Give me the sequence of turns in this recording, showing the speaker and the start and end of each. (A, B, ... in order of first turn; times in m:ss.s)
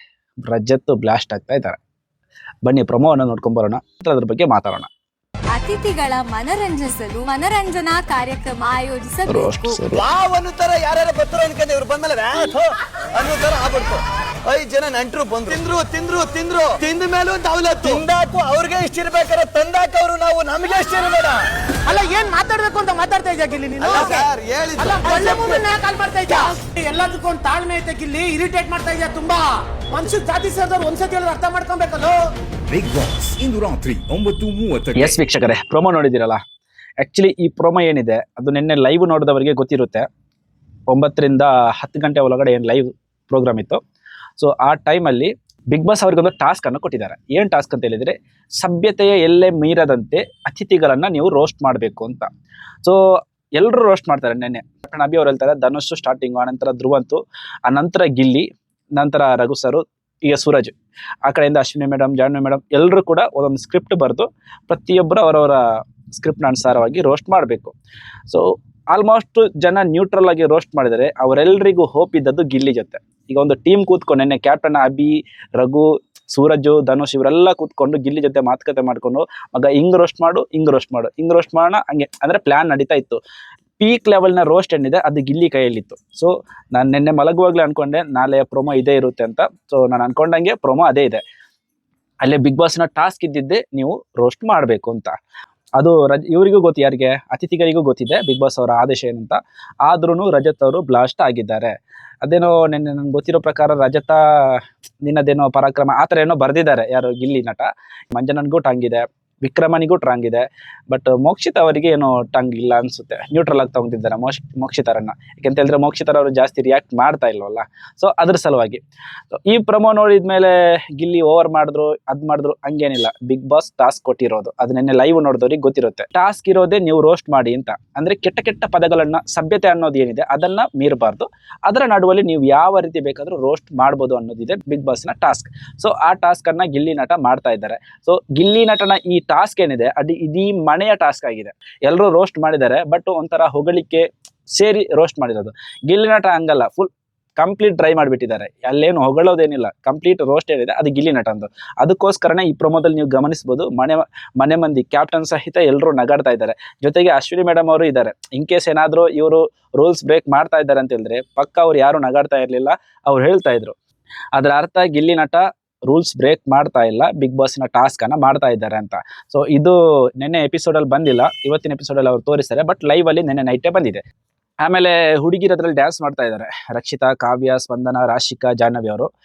0:00.4-0:01.8 A
0:02.6-0:04.9 A
0:05.5-0:09.8 B
0:09.3-0:10.1 A
0:09.9-0:22.0 C
0:21.9-0:24.2 D
0:23.8-0:25.6 C
0:24.8-0:32.3 D
0:32.7-0:35.2 E
0:35.0-0:36.4 A
0:37.0-0:40.1 A
0:40.9-0:43.8 A
0:44.4-0:52.3 A
0:52.8-1:07.8 A
1:08.3-1:23.2 A
1:23.8-1:31.2 A
1:32.2-1:35.2 A
1:35.8-2:43.8 A
2:44.3-2:54.0 A
2:54.6-2:59.1 A